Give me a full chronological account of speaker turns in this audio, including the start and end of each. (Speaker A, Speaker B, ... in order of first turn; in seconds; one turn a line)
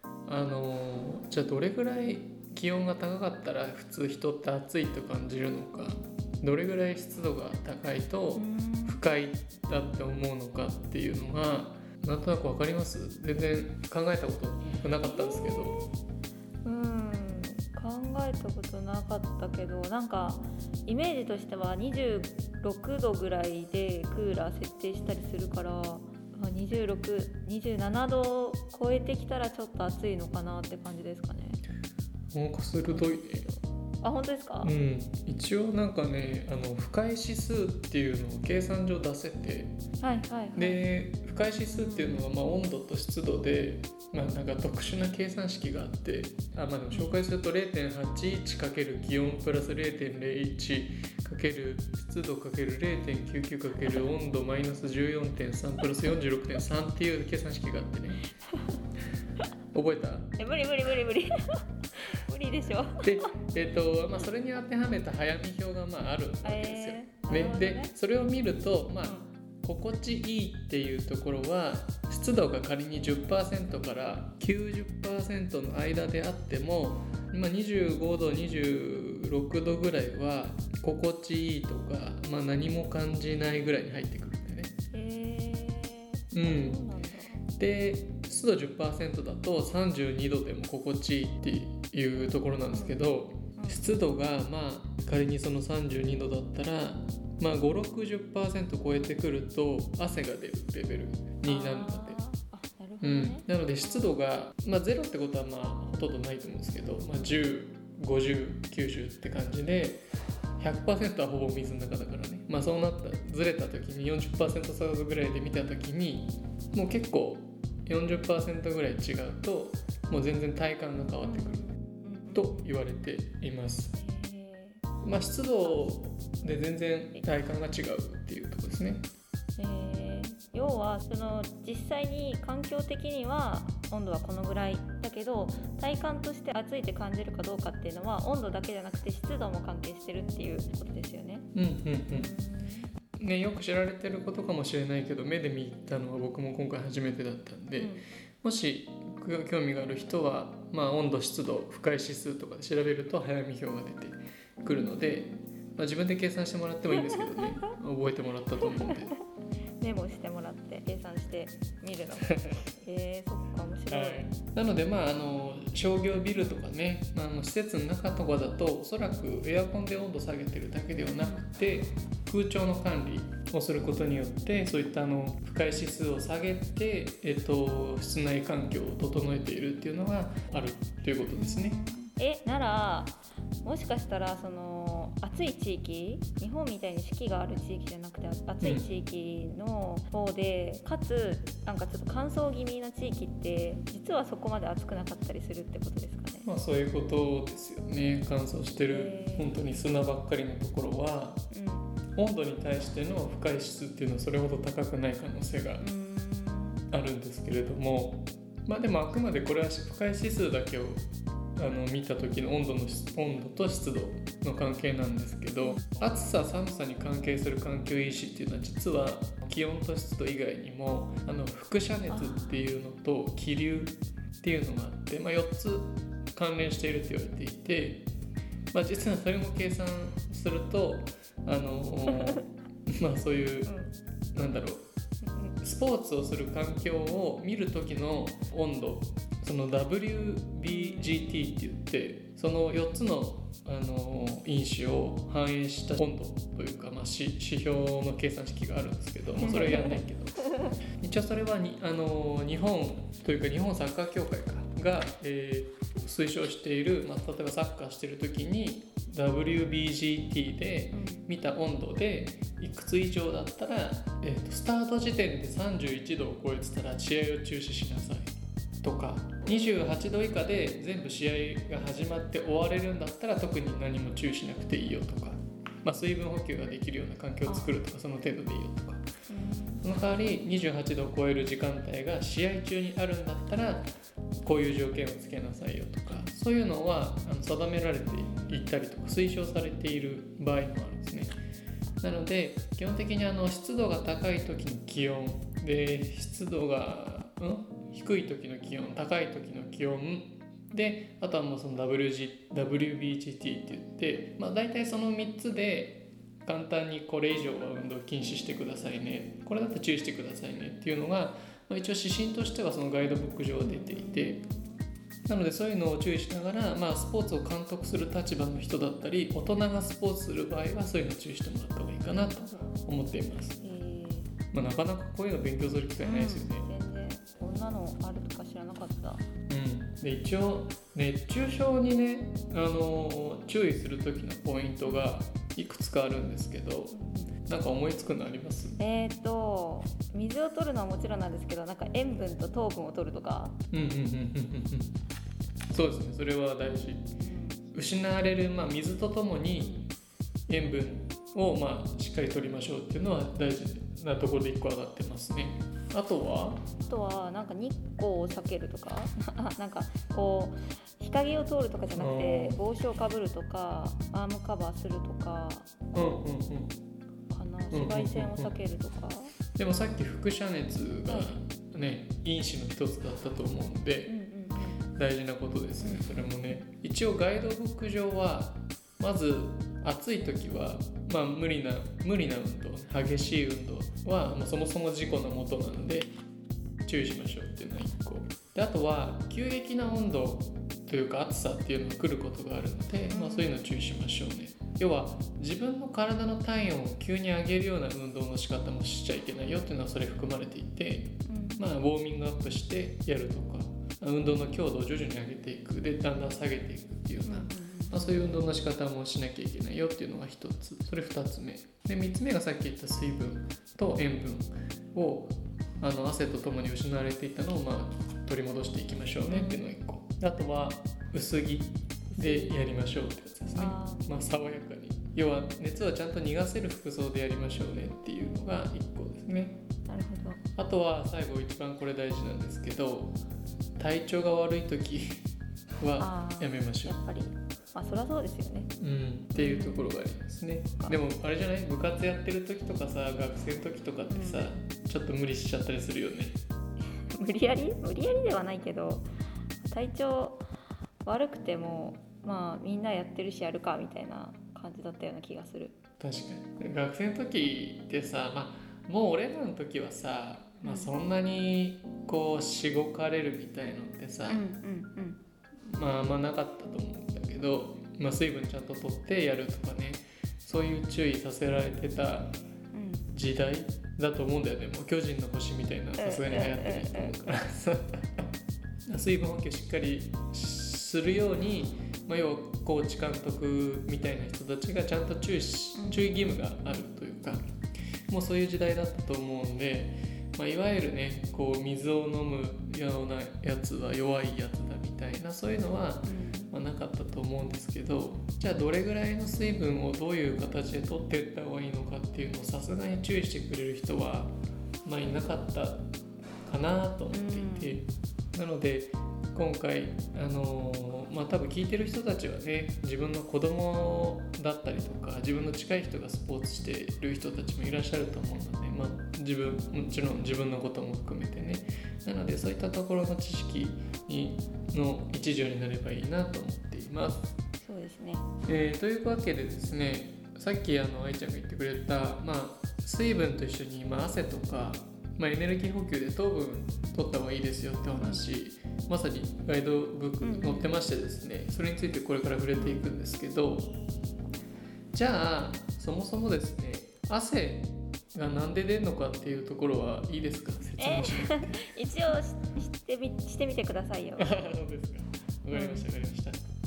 Speaker A: 0.2-15.8
Speaker B: 8.3-9.0
Speaker B: 15.0-15.9
Speaker B: 16.6-31.6
Speaker A: 32.3-33.5
Speaker B: 32.9-34.7
Speaker A: 34.6-39.7
Speaker B: 40.0-40.8
Speaker A: 40.5-58.2
Speaker B: 41.7-42.3
Speaker B: 46.9-47.2
Speaker B: 58.5-58.8
Speaker A: 59.7-60.3
Speaker B: 60.4-61.3
Speaker B: 61.9-63.3
Speaker A: 63.0-84.7
Speaker B: 66.4-67.9
Speaker B: 69.0-69.3
Speaker B: 84.9-87.5
Speaker A: 86.3-86.8
Speaker A: 87.6-102.2
Speaker B: 92.7-93.9
Speaker B: 101.4-103.5
Speaker A: 103.0-110.0
Speaker A: 110.6-121.7
Speaker B: 121.2-122.7
Speaker A: 122.3-123.9
Speaker B: 123.9-124.8
Speaker A: 125.0-129.0
Speaker B: 125.6-125.9
Speaker B: 129.6-141.5
Speaker A: 141.5-142.3
Speaker B: 142.1-142.9
Speaker A: 143.2-159.1
Speaker B: 147.8-148.0
Speaker B: 154.6-155.4
Speaker B: 156.9-157.7
Speaker B: 158.6-159.2
Speaker B: 159.8-164.3
Speaker A: 162.3-162.6
Speaker A: 163.9-181.8
Speaker B: 166.3-166.6
Speaker B: 171.2-171.4
Speaker B: 181.3-196.5
Speaker A: 188.6-188.9
Speaker A: 196.4-201.4
Speaker B: 198.9-199.5
Speaker B: 201.5-201.9
Speaker A: 202.2-205.8
Speaker B: 205.8-206.8
Speaker A: 206.9-211.0
Speaker A: 211.6-228.1
Speaker B: 215.6-216.0
Speaker B: 222.1-222.6
Speaker A: 228.7-233.7
Speaker B: 232.1-232.5
Speaker B: 233.7-233.9
Speaker A: 234.3-234.8
Speaker B: 235.2-235.6
Speaker A: 235.6-250.4
Speaker B: 240.7-241.3
Speaker B: 249.4-250.7
Speaker A: 251.0-268.3
Speaker B: 260.9-261.2
Speaker A: 268.8-279.0
Speaker B: 277.4-277.8
Speaker B: 279.3-279.8
Speaker A: 279.8-283.9
Speaker A: 284.4-291.3
Speaker B: 288.1-288.7
Speaker A: 292.0-314.4
Speaker B: 313.6-314.8
Speaker A: 315.2-323.6
Speaker B: 322.3-322.7
Speaker B: 323.6-324.3
Speaker A: 324.5-326.7
Speaker B: 326.0-329.2
Speaker A: 329.5-338.8
Speaker B: 334.8-335.1
Speaker B: 336.9-337.3
Speaker B: 338.8-343.6
Speaker A: 343.7-344.9
Speaker A: 345.7-347.1
Speaker B: 347.2-347.6
Speaker A: 347.7-349.8
Speaker B: 349.6-349.9
Speaker A: 350.5-356.6
Speaker B: 356.9-366.2
Speaker A: 361.9-362.6
Speaker A: 365.9-366.7
Speaker B: 367.3-369.3
Speaker A: 367.7-368.5
Speaker A: 369.5-374.1
Speaker B: 371.1-371.3
Speaker B: 374.1-374.9
Speaker A: 374.9-386.1
Speaker B: 375.8-376.1
Speaker A: 386.9-429.5
Speaker B: 393.1-393.6
Speaker B: 401.2-401.6
Speaker B: 407.2-408.0
Speaker B: 419.3-419.6
Speaker B: 422.1-422.5
Speaker B: 423.6-424.1
Speaker B: 429.5-430.4
Speaker A: 430.6-433.1
Speaker A: 433.8-435.2
Speaker A: 435.8-437.0
Speaker B: 436.0-438.7
Speaker A: 438.8-446.4
Speaker B: 439.3-439.9
Speaker B: 444.1-444.5
Speaker B: 447.1-449.1
Speaker B: 449.6-450.4
Speaker B: 451.0-455.8
Speaker A: 456.0-464.4
Speaker B: 460.6-460.9
Speaker B: 464.3-465.2
Speaker A: 465.6-472.3
Speaker B: 472.7-473.0
Speaker A: 473.1-478.3
Speaker B: 476.0-477.1
Speaker A: 478.9-487.4
Speaker B: 485.7-486.1
Speaker A: 488.1-504.3
Speaker B: 496.1-496.5
Speaker A: 504.8-505.8
Speaker A: 506.5-527.2
Speaker B: 507.1-507.8
Speaker B: 527.6-528.3
Speaker A: 528.5-543.7
Speaker B: 540.2-540.7
Speaker B: 542.5-542.8
Speaker A: 544.9-551.7
Speaker B: 550.8-554.3
Speaker A: 554.2-556.4
Speaker B: 555.5-555.9